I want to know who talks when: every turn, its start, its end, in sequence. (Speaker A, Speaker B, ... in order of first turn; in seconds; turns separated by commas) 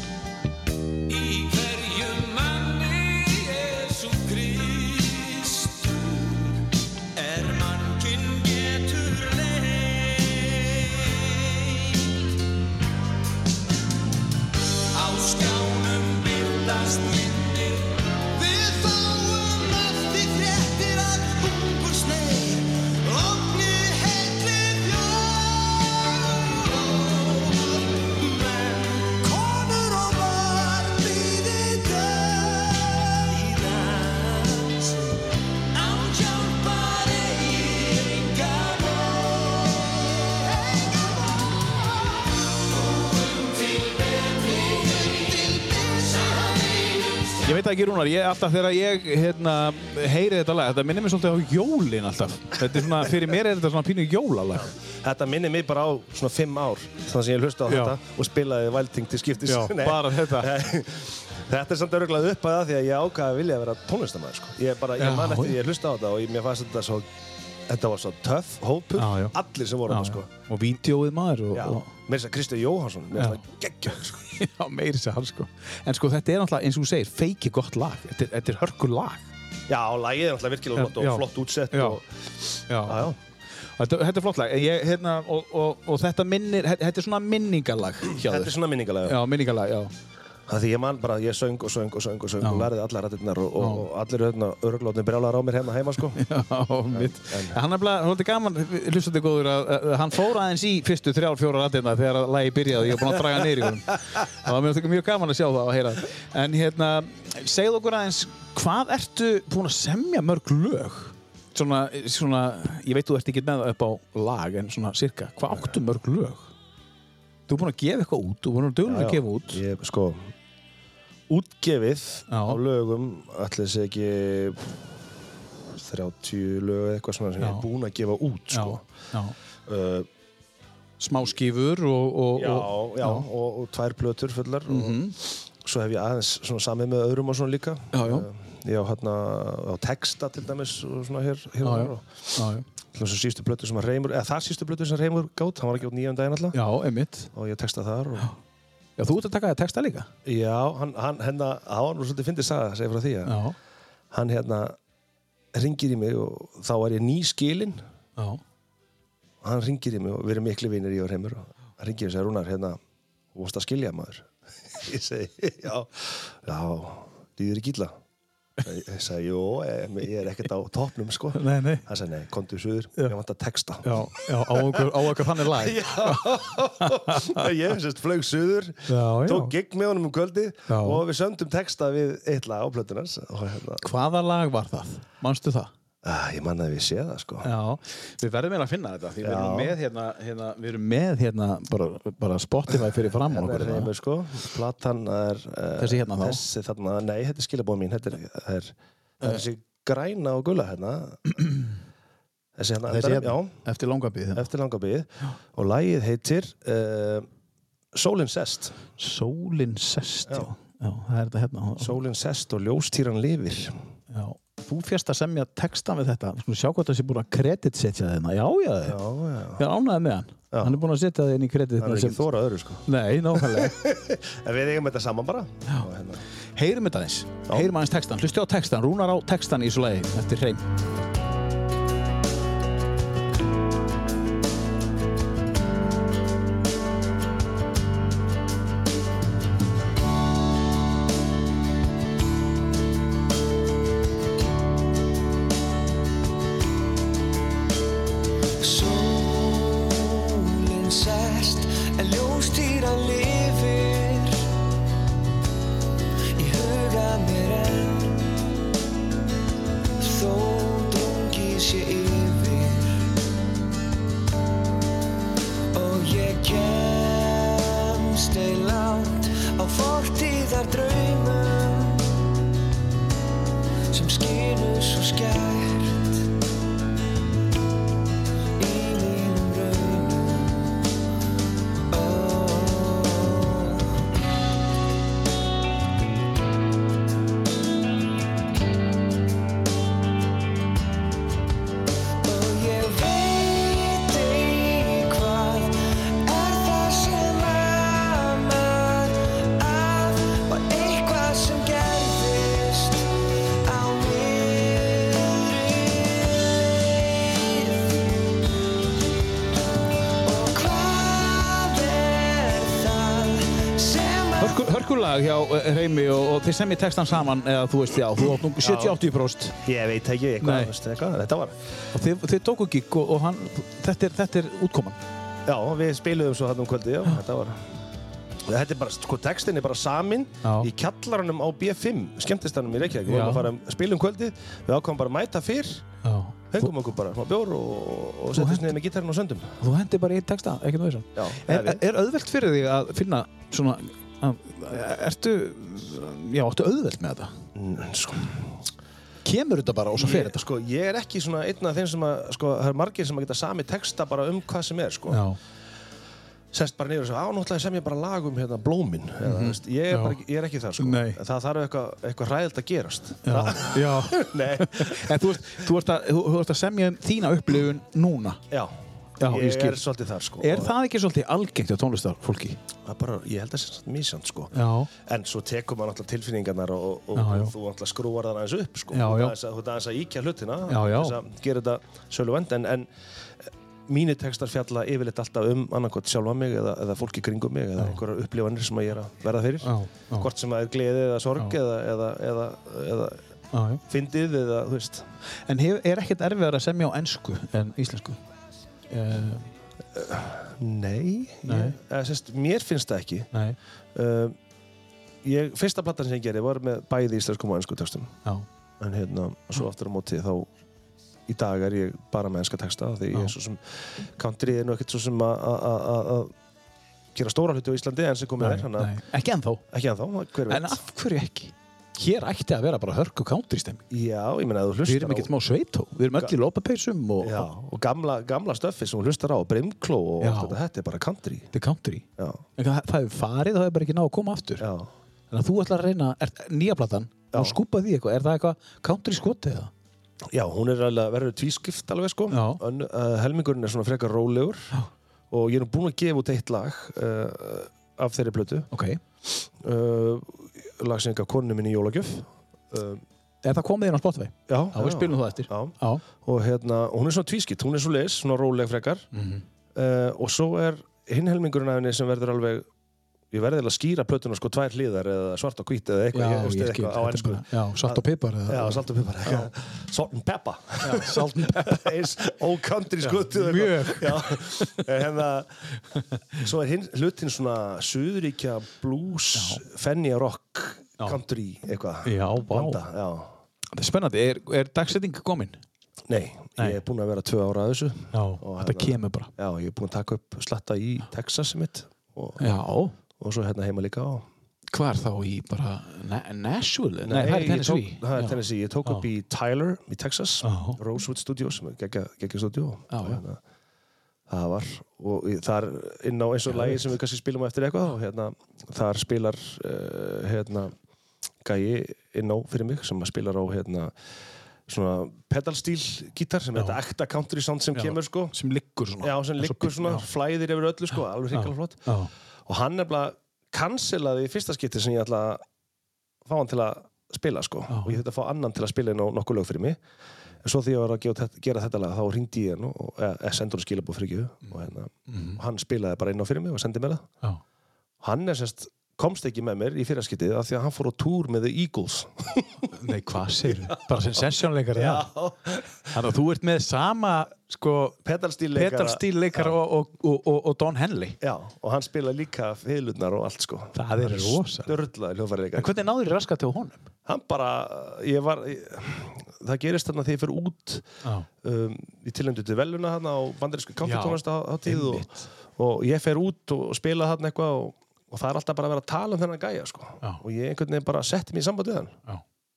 Speaker A: 1.1-6.4, Speaker A: 7.2-10.6, Speaker A: 14.9-17.8, Speaker A: 18.4-34.8, Speaker A: 35.7-41.0, Speaker A: 43.0-47.2, Speaker B: 47.4-54.7, Speaker C: 54.8-67.1, Speaker B: 57.7-57.9, Speaker B: 59.5-60.5, Speaker B: 65.0-65.5, Speaker C: 67.7-70.3, Speaker B: 69.0-69.3, Speaker B: 69.9-71.9, Speaker C: 71.5-74.2, Speaker B: 74.3-79.2, Speaker C: 79.7-83.2, Speaker B: 80.8-82.0, Speaker B: 82.7-83.1, Speaker B: 83.8-89.9, Speaker C: 88.1-89.2, Speaker C: 90.5-96.2, Speaker B: 92.4-92.7, Speaker B: 93.6-93.9, Speaker B: 96.2-116.5, Speaker C: 96.9-97.6, Speaker B: 117.5-119.6, Speaker C: 118.8-120.3, Speaker C: 121.3-124.8, Speaker B: 122.3-122.6, Speaker C: 125.7-128.8, Speaker B: 127.4-127.6, Speaker B: 128.5-129.3, Speaker C: 129.7-130.1, Speaker B: 131.0-133.2, Speaker C: 132.3-146.6, Speaker B: 134.7-135.2, Speaker B: 137.9-138.3, Speaker B: 141.6-142.6, Speaker B: 146.5-147.3, Speaker C: 147.3-148.3, Speaker B: 149.0-150.1, Speaker C: 150.2-153.4, Speaker B: 153.3-153.6, Speaker C: 154.1-154.8, Speaker C: 155.5-157.8, Speaker C: 159.4-162.8, Speaker C: 163.3-167.9, Speaker C: 168.6-183.8, Speaker B: 171.3-171.8, Speaker B: 173.8-177.4, Speaker B: 178.9-179.5, Speaker B: 180.7-181.0, Speaker B: 183.8-185.7, Speaker C: 186.0-187.5, Speaker B: 187.4-193.9, Speaker C: 189.2-189.8, Speaker C: 192.7-201.3, Speaker B: 195.8-196.4, Speaker C: 202.6-203.6, Speaker B: 202.9-204.4, Speaker C: 204.3-207.3, Speaker C: 207.9-208.8, Speaker B: 209.0-212.0, Speaker C: 210.3-210.5, Speaker C: 211.8-213.8, Speaker B: 214.1-219.0, Speaker C: 218.8-219.6, Speaker B: 219.6-222.2, Speaker C: 221.8-226.2, Speaker B: 222.8-223.8, Speaker B: 226.6-230.6, Speaker C: 227.5-227.7, Speaker A: 304.3-305.0, Speaker A: 310.6-313.0, Speaker B: 314.4-319.6, Speaker C: 318.6-319.0, Speaker C: 319.6-321.6, Speaker B: 320.4-320.7, Speaker B: 321.9-325.0, Speaker C: 325.4-327.6, Speaker C: 328.5-335.8, Speaker B: 330.4-330.7, Speaker B: 333.1-333.5, Speaker B: 336.0-336.7, Speaker C: 336.5-339.6, Speaker B: 338.3-338.8, Speaker B: 339.6-347.3, Speaker C: 341.1-341.8, Speaker C: 347.5-348.6, Speaker B: 349.2-350.4, Speaker C: 350.0-355.2, Speaker B: 355.1-355.4, Speaker C: 356.5-365.3, Speaker B: 359.2-360.2, Speaker B: 360.8-361.2, Speaker B: 363.2-368.4, Speaker B: 369.2-369.8, Speaker C: 369.2-370.7, Speaker B: 370.4-372.6, Speaker C: 372.8-382.9, Speaker B: 374.5-374.9, Speaker B: 377.1-377.5, Speaker B: 378.9-379.4, Speaker B: 380.7-381.2, Speaker C: 383.5-393.2, Speaker B: 389.6-390.3, Speaker B: 393.5-393.8, Speaker C: 393.9-395.1, Speaker B: 395.5-398.2, Speaker B: 398.9-399.5, Speaker C: 399.9-403.3, Speaker B: 401.4-401.8, Speaker B: 403.3-403.6, Speaker C: 403.9-404.4, Speaker C: 405.2-408.1, Speaker C: 408.8-410.5, Speaker C: 411.3-416.3, Speaker C: 417.1-418.9, Speaker B: 418.4-419.6, Speaker C: 419.7-420.8, Speaker B: 420.5-423.8, Speaker C: 423.9-425.3, Speaker B: 424.9-427.5, Speaker C: 427.2-431.5, Speaker B: 430.2-430.6, Speaker B: 431.5-432.0, Speaker B: 432.6-434.6, Speaker C: 434.6-434.9, Speaker B: 435.3-439.7, Speaker C: 440.3-444.7, Speaker B: 442.3-442.6, Speaker C: 445.3-448.7, Speaker B: 448.7-449.0, Speaker C: 449.3-453.0, Speaker B: 453.4-456.0, Speaker C: 454.5-459.1, Speaker B: 459.1-459.4, Speaker C: 459.7-462.7, Speaker C: 463.3-475.6, Speaker B: 466.1-469.5, Speaker B: 470.8-471.9, Speaker B: 473.0-474.9, Speaker C: 476.4-483.3, Speaker B: 479.3-479.6, Speaker B: 482.0-482.8, Speaker B: 483.7-485.6, Speaker C: 486.1-492.4, Speaker B: 488.1-489.3, Speaker B: 492.4-492.9, Speaker C: 493.1-494.2, Speaker B: 494.7-499.0, Speaker C: 497.0-503.4, Speaker B: 500.4-500.8, Speaker B: 502.9-503.2, Speaker C: 504.3-510.7, Speaker B: 506.5-506.9, Speaker C: 511.4-513.9, Speaker C: 514.7-518.3, Speaker B: 517.7-520.0, Speaker C: 519.0-521.9, Speaker B: 521.3-522.1, Speaker C: 522.5-525.4, Speaker C: 526.2-529.8, Speaker B: 527.7-528.0, Speaker C: 530.4-537.1, Speaker B: 534.4-535.4, Speaker C: 538.0-542.7, Speaker B: 542.7-545.0, Speaker C: 543.7-544.2, Speaker C: 544.7-546.0, Speaker B: 545.9-548.0, Speaker C: 548.0-549.5, Speaker B: 548.5-551.2, Speaker C: 551.2-555.8, Speaker B: 553.7-554.7, Speaker B: 555.5-556.8, Speaker C: 557.1-560.9, Speaker C: 561.4-572.0, Speaker B: 563.8-565.1